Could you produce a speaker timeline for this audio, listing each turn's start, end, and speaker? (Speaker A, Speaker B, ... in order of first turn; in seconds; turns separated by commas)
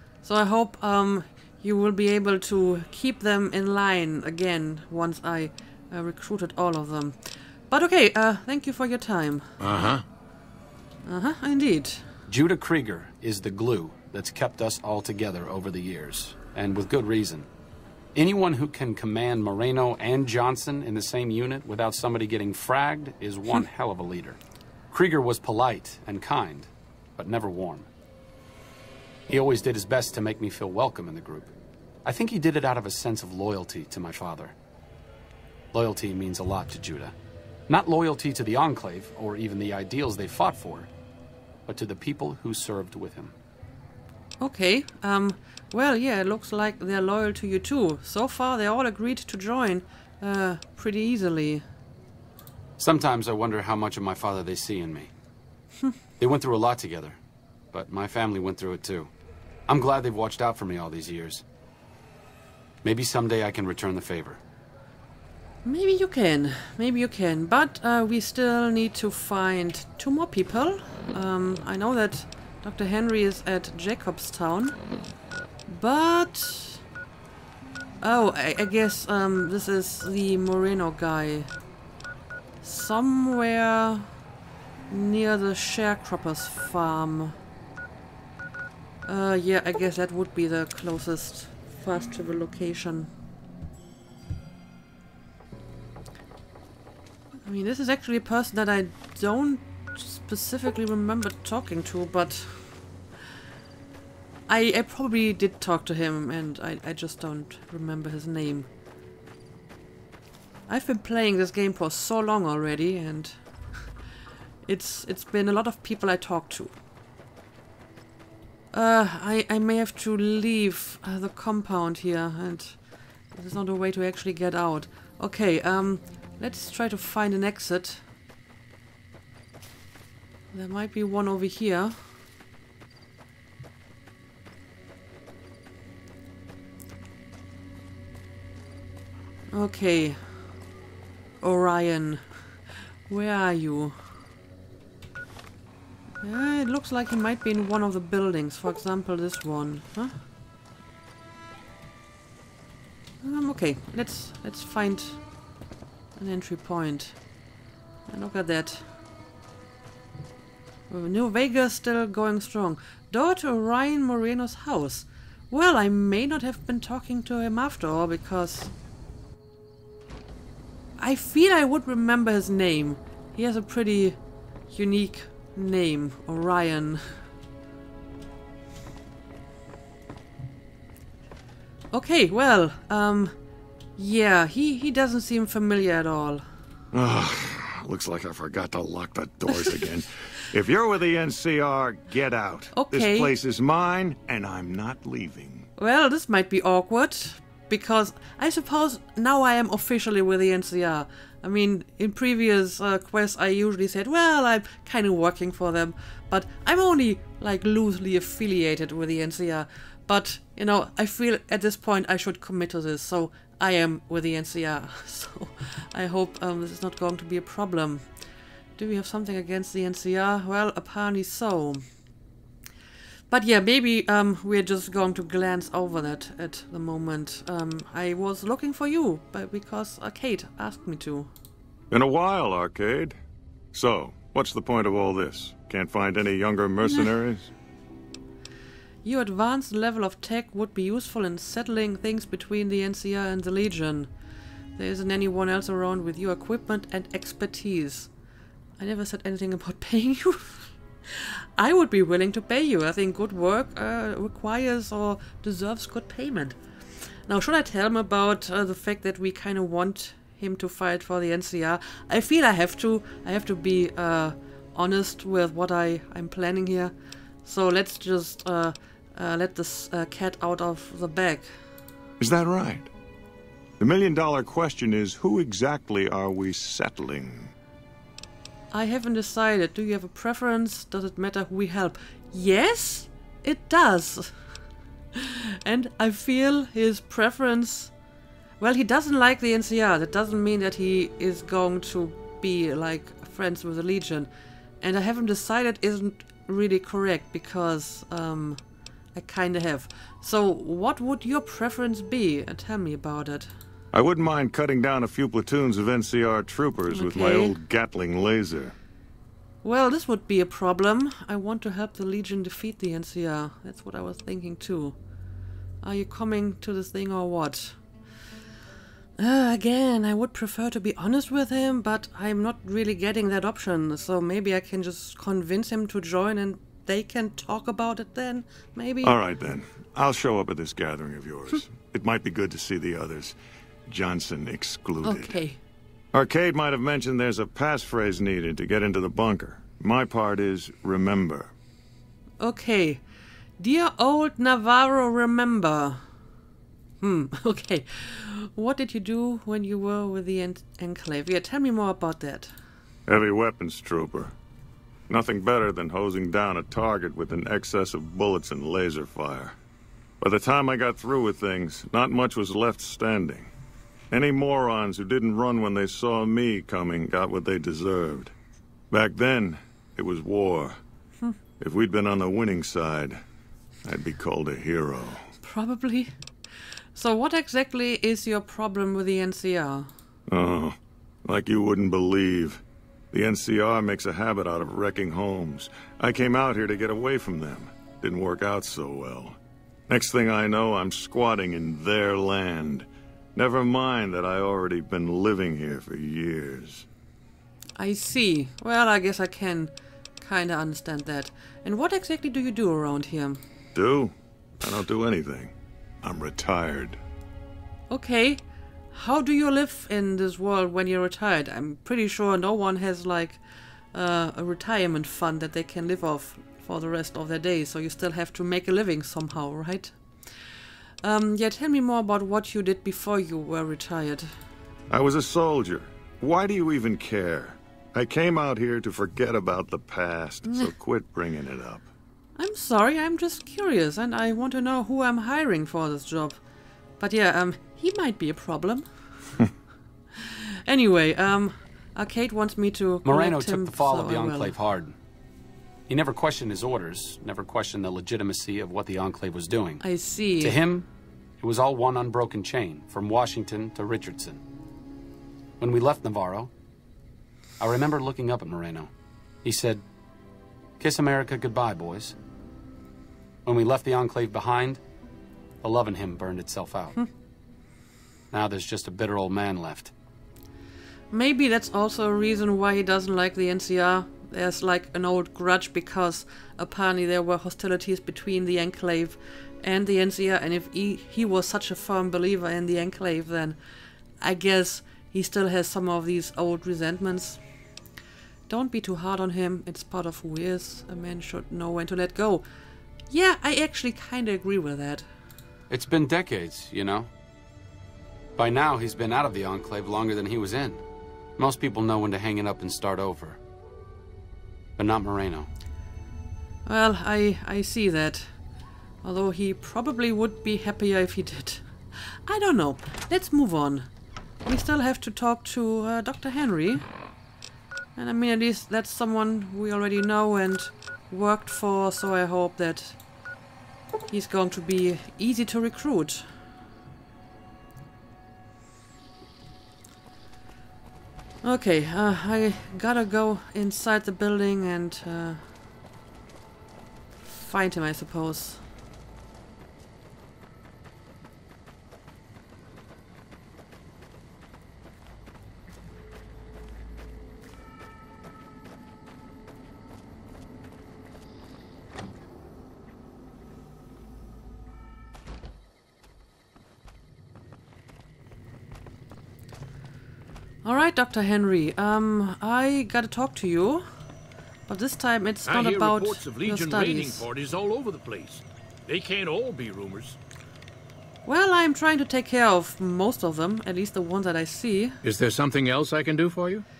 Speaker A: 0.2-9.5, Speaker B: 9.6-10.0, Speaker A: 11.1-12.0, Speaker C: 12.3-17.5, Speaker C: 18.1-24.4, Speaker C: 24.9-27.9, Speaker C: 29.3-31.5, Speaker C: 32.0-34.5, Speaker C: 35.7-37.1, Speaker C: 37.7-40.9, Speaker C: 41.7-43.3, Speaker A: 44.4-51.6, Speaker C: 52.8-55.1, Speaker C: 56.2-57.2, Speaker C: 57.7-59.1, Speaker C: 59.7-61.4, Speaker C: 62.8-64.4, Speaker A: 65.6-74.8, Speaker A: 75.7-76.8, Speaker A: 78.0-81.5, Speaker A: 82.6-84.1, Speaker A: 84.9-87.3, Speaker A: 89.0-93.1, Speaker A: 97.4-102.7, Speaker A: 104.5-108.7, Speaker A: 110.7-113.4, Speaker A: 114.7-116.7, Speaker A: 118.7-122.8, Speaker A: 123.3-128.0, Speaker A: 130.5-132.0, Speaker A: 139.5-140.2, Speaker A: 141.4-142.2, Speaker A: 143.1-143.9, Speaker A: 146.2-150.1, Speaker A: 153.2-155.2, Speaker A: 156.2-157.2, Speaker A: 158.1-158.8, Speaker A: 160.9-168.7, Speaker A: 171.0-174.2, Speaker A: 174.7-177.1, Speaker A: 181.9-183.3, Speaker A: 184.0-186.4, Speaker D: 186.9-195.7, Speaker A: 192.7-193.3, Speaker A: 195.8-218.0, Speaker A: 218.8-221.8, Speaker A: 223.3-231.3, Speaker D: 231.9-233.2, Speaker D: 233.7-237.5, Speaker A: 239.0-244.1, Speaker A: 244.8-248.1, Speaker A: 248.8-256.6, Speaker A: 257.3-271.5, Speaker D: 272.2-272.9, Speaker D: 273.8-277.5, Speaker A: 278.7-284.3, Speaker A: 285.1-287.9, Speaker A: 288.6-294.3, Speaker A: 294.8-298.6, Speaker A: 299.1-303.5, Speaker D: 303.9-308.7, Speaker A: 306.9-307.6, Speaker A: 309.6-314.9, Speaker A: 315.8-317.8, Speaker A: 319.2-329.1, Speaker D: 329.0-333.4, Speaker D: 333.9-335.4, Speaker A: 335.0-335.6, Speaker D: 336.1-341.5, Speaker A: 342.4-343.0, Speaker A: 343.6-346.0, Speaker A: 347.0-352.5, Speaker D: 353.1-354.3, Speaker D: 355.1-359.5, Speaker D: 360.2-363.5, Speaker D: 364.1-368.3, Speaker D: 368.9-370.8, Speaker D: 371.6-373.2, Speaker D: 373.8-375.2, Speaker A: 375.4-376.1, Speaker A: 376.9-379.9, Speaker D: 380.3-389.4, Speaker D: 389.9-396.9, Speaker A: 397.8-403.4, Speaker D: 403.7-407.0, Speaker A: 407.9-408.4, Speaker A: 408.9-413.4, Speaker A: 413.9-420.0, Speaker A: 421.0-424.3, Speaker D: 424.9-431.9, Speaker A: 432.4-436.4, Speaker A: 437.0-438.9, Speaker A: 440.1-444.5, Speaker C: 443.0-444.9, Speaker C: 445.9-449.8, Speaker A: 449.8-450.6, Speaker C: 450.4-450.9, Speaker C: 451.4-454.4, Speaker C: 455.6-456.5, Speaker C: 457.6-458.9, Speaker C: 459.4-459.8, Speaker C: 460.8-462.1, Speaker C: 463.4-464.8, Speaker C: 465.6-467.0, Speaker C: 468.3-469.9, Speaker A: 471.1-483.6, Speaker A: 484.2-487.4, Speaker A: 488.5-492.4, Speaker A: 493.1-495.1, Speaker C: 495.7-497.1, Speaker C: 498.4-500.8, Speaker C: 501.4-503.4, Speaker C: 504.8-505.5, Speaker A: 506.6-508.3, Speaker A: 509.0-513.9, Speaker A: 514.4-516.8, Speaker A: 518.0-523.0, Speaker A: 524.1-526.2, Speaker A: 531.4-535.4, Speaker A: 537.3-538.6, Speaker A: 560.6-563.9, Speaker A: 564.7-567.2, Speaker B: 565.5-570.2, Speaker A: 571.2-575.0, Speaker B: 575.0-576.6